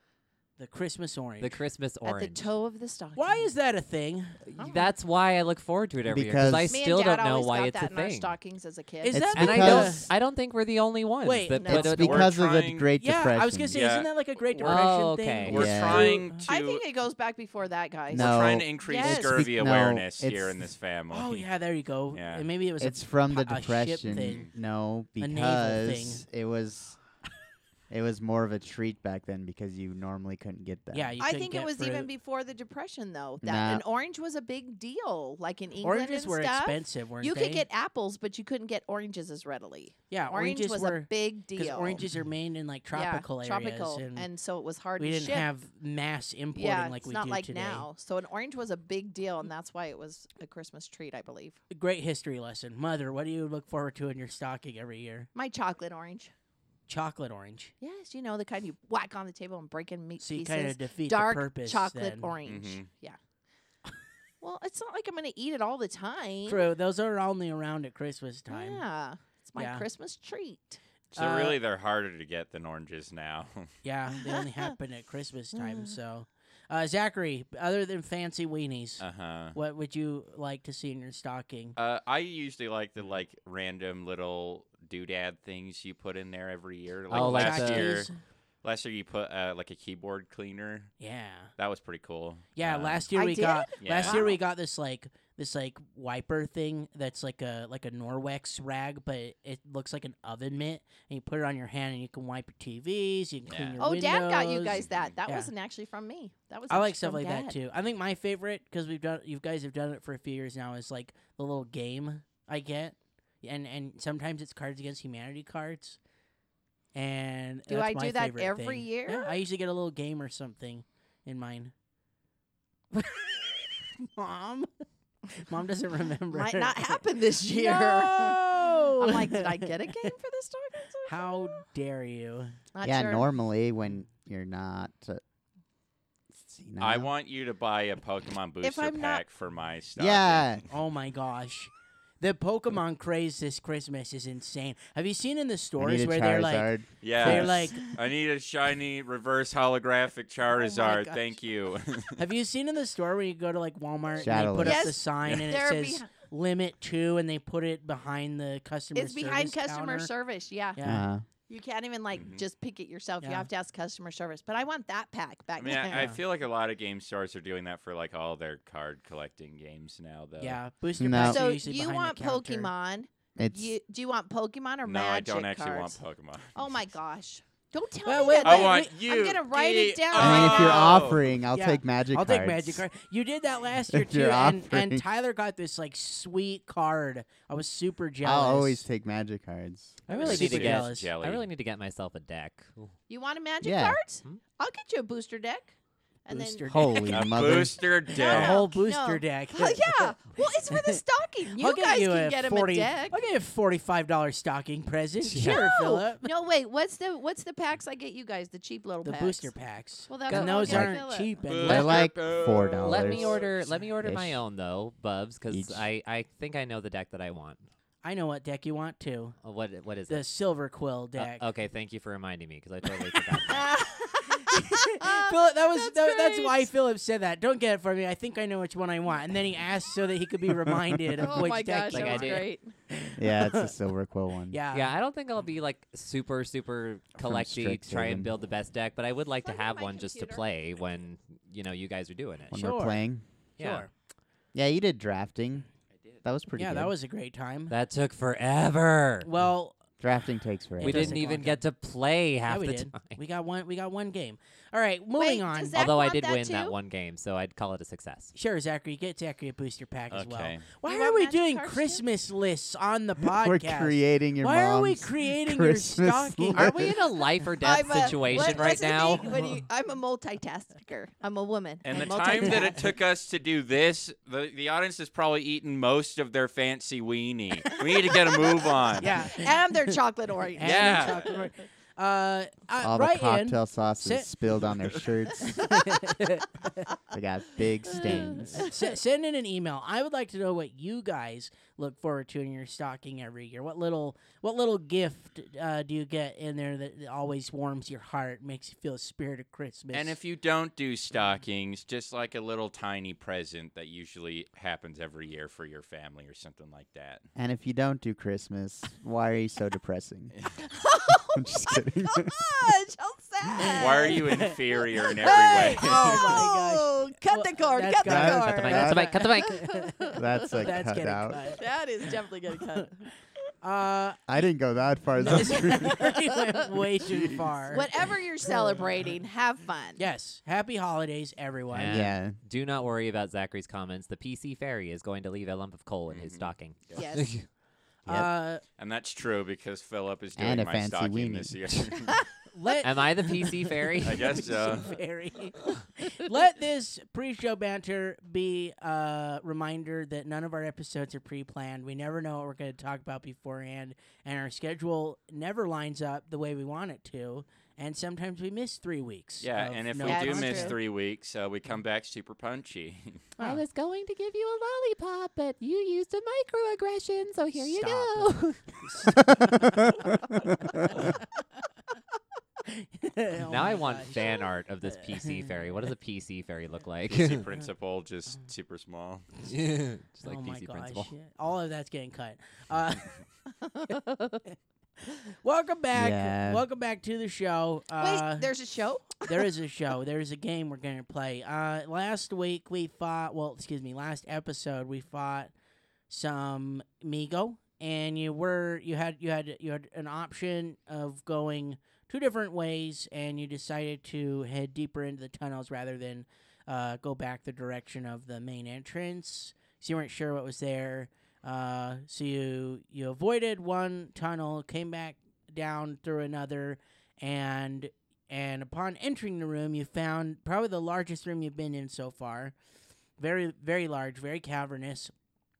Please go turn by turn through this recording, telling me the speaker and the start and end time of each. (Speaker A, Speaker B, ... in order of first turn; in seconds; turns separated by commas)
Speaker A: 0.6-1.6, Speaker B: 1.4-2.5, Speaker C: 2.0-3.5, Speaker A: 3.2-4.4, Speaker C: 4.6-4.9, Speaker B: 4.6-8.4, Speaker D: 6.1-6.8, Speaker C: 6.7-9.2, Speaker A: 9.0-10.1, Speaker D: 9.1-10.1, Speaker B: 9.4-12.3, Speaker A: 11.2-11.8, Speaker C: 11.6-11.9, Speaker D: 11.8-13.8, Speaker E: 11.9-12.9, Speaker A: 13.0-16.5, Speaker E: 13.7-14.9, Speaker B: 14.6-15.6, Speaker E: 15.5-16.8, Speaker D: 15.5-16.1, Speaker C: 16.5-19.5, Speaker D: 18.1-20.6, Speaker E: 18.1-21.5, Speaker A: 21.1-24.5, Speaker E: 22.1-22.5, Speaker D: 22.8-27.0, Speaker E: 24.2-24.5, Speaker A: 25.2-26.2, Speaker D: 27.9-31.2, Speaker A: 30.9-32.1, Speaker C: 31.2-42.0, Speaker D: 33.4-33.9, Speaker A: 35.8-37.7, Speaker A: 40.1-44.3, Speaker C: 42.9-45.5, Speaker A: 45.0-47.9, Speaker C: 46.5-51.6, Speaker A: 51.7-55.3, Speaker C: 55.4-56.3, Speaker A: 56.9-57.7, Speaker C: 57.8-63.2, Speaker A: 60.2-62.4, Speaker E: 62.4-62.9, Speaker C: 64.4-66.7, Speaker A: 66.5-68.8, Speaker C: 68.5-70.8, Speaker A: 69.6-69.9, Speaker A: 71.2-71.6, Speaker E: 71.2-73.7, Speaker A: 73.8-81.8, Speaker C: 74.2-74.7, Speaker C: 75.6-76.0, Speaker E: 79.0-79.6, Speaker E: 81.8-88.1, Speaker B: 87.1-88.0, Speaker A: 87.1-88.2, Speaker E: 88.6-90.9, Speaker A: 91.0-91.5, Speaker E: 91.6-93.1, Speaker A: 92.5-105.5, Speaker C: 93.1-94.4, Speaker E: 93.8-94.2, Speaker E: 103.5-103.8, Speaker C: 103.8-107.6, Speaker E: 104.7-105.2, Speaker A: 106.7-116.0, Speaker A: 116.9-121.7, Speaker C: 117.7-119.3, Speaker A: 122.9-130.1, Speaker C: 126.3-131.6, Speaker A: 131.1-132.6, Speaker C: 132.7-133.3, Speaker D: 132.8-135.2, Speaker D: 136.3-137.1, Speaker E: 136.8-140.5, Speaker C: 138.6-139.2, Speaker D: 140.0-140.7, Speaker A: 140.7-147.8, Speaker D: 145.8-147.7, Speaker E: 147.0-152.2, Speaker A: 150.5-151.3, Speaker A: 152.2-160.1, Speaker D: 154.2-155.0, Speaker C: 154.6-156.1, Speaker C: 158.9-160.9, Speaker A: 160.8-161.1, Speaker D: 160.8-161.2, Speaker C: 161.5-166.1, Speaker E: 162.1-162.4, Speaker A: 163.2-163.5, Speaker E: 165.6-170.6, Speaker A: 165.9-166.2, Speaker A: 170.4-172.7, Speaker D: 171.0-171.4, Speaker C: 171.2-176.0, Speaker D: 173.4-173.8, Speaker E: 174.8-176.8, Speaker C: 176.6-181.1, Speaker A: 178.1-178.9, Speaker E: 178.4-181.3, Speaker D: 180.1-182.8, Speaker A: 181.5-188.8, Speaker D: 183.9-185.0, Speaker D: 188.2-190.1, Speaker A: 190.1-191.1, Speaker E: 190.1-191.4, Speaker B: 190.1-192.9, Speaker C: 193.1-195.8, Speaker D: 193.6-194.0, Speaker C: 196.3-196.7, Speaker A: 196.3-197.6, Speaker D: 196.7-197.8, Speaker E: 197.1-198.7, Speaker C: 198.1-203.2, Speaker A: 198.2-200.1, Speaker A: 200.7-201.0, Speaker A: 201.6-206.3, Speaker B: 205.2-205.6, Speaker C: 205.4-209.5, Speaker A: 209.0-212.0, Speaker C: 210.1-211.4, Speaker B: 210.3-210.9, Speaker D: 210.7-210.9, Speaker E: 211.5-213.9, Speaker B: 211.6-212.1, Speaker D: 211.7-213.4, Speaker B: 212.8-217.7, Speaker D: 214.0-214.4, Speaker D: 215.5-215.8, Speaker A: 218.0-219.4, Speaker B: 219.4-220.3, Speaker A: 220.1-221.5, Speaker B: 221.2-223.7, Speaker C: 223.5-226.7, Speaker A: 224.4-233.7, Speaker D: 230.6-230.9, Speaker C: 231.2-232.7, Speaker B: 231.3-232.5, Speaker D: 233.2-234.6, Speaker A: 234.5-234.9, Speaker B: 234.7-242.5, Speaker D: 237.2-238.3, Speaker C: 239.5-240.5, Speaker D: 242.5-243.2, Speaker A: 242.5-243.0, Speaker A: 243.6-243.9, Speaker B: 243.6-243.9, Speaker D: 244.5-245.7, Speaker E: 246.0-246.2, Speaker D: 246.2-246.9, Speaker A: 246.5-247.7, Speaker B: 247.7-249.3, Speaker A: 249.2-249.8, Speaker D: 250.0-251.3, Speaker A: 250.8-251.6, Speaker B: 250.8-253.2, Speaker A: 252.5-255.8, Speaker C: 255.2-256.8, Speaker B: 255.8-258.4, Speaker A: 258.4-266.7, Speaker E: 260.1-260.8, Speaker C: 260.8-262.0, Speaker D: 263.2-267.0, Speaker B: 266.5-269.4, Speaker C: 267.6-272.9, Speaker A: 269.3-269.5, Speaker E: 271.8-279.2, Speaker A: 277.7-279.9, Speaker C: 279.0-281.3, Speaker A: 280.6-284.3, Speaker E: 280.6-281.3, Speaker D: 282.8-285.8, Speaker A: 285.5-286.8, Speaker D: 287.1-288.6, Speaker C: 287.9-288.8, Speaker A: 288.5-300.2, Speaker E: 299.9-307.2, Speaker D: 307.4-310.3, Speaker C: 310.6-320.6, Speaker D: 311.3-312.4, Speaker E: 313.7-316.4, Speaker A: 314.2-314.5, Speaker A: 315.8-322.1, Speaker D: 318.0-319.1, Speaker B: 318.2-319.7, Speaker D: 320.1-321.4, Speaker C: 321.5-323.0, Speaker A: 322.8-323.1, Speaker A: 323.6-324.2, Speaker D: 324.3-326.1, Speaker A: 325.2-327.9, Speaker C: 325.4-326.3, Speaker C: 327.7-330.0, Speaker A: 328.4-329.1, Speaker A: 330.0-332.1, Speaker B: 331.7-337.4, Speaker D: 331.8-332.4, Speaker E: 336.1-337.0, Speaker C: 337.0-337.4, Speaker A: 338.1-338.6, Speaker E: 338.8-342.2, Speaker D: 340.4-341.6, Speaker A: 342.5-360.8, Speaker B: 342.8-344.4, Speaker E: 344.0-345.0, Speaker E: 359.4-363.3, Speaker C: 360.0-360.8, Speaker B: 363.4-368.7, Speaker A: 367.6-371.4, Speaker D: 369.6-370.0, Speaker A: 372.7-375.9, Speaker B: 373.5-377.5, Speaker E: 377.1-379.3, Speaker B: 379.5-381.1, Speaker A: 380.2-383.2, Speaker A: 385.1-388.5, Speaker D: 385.9-386.6, Speaker C: 388.0-389.5, Speaker A: 389.2-395.5, Speaker A: 396.1-422.6, Speaker A: 423.2-425.1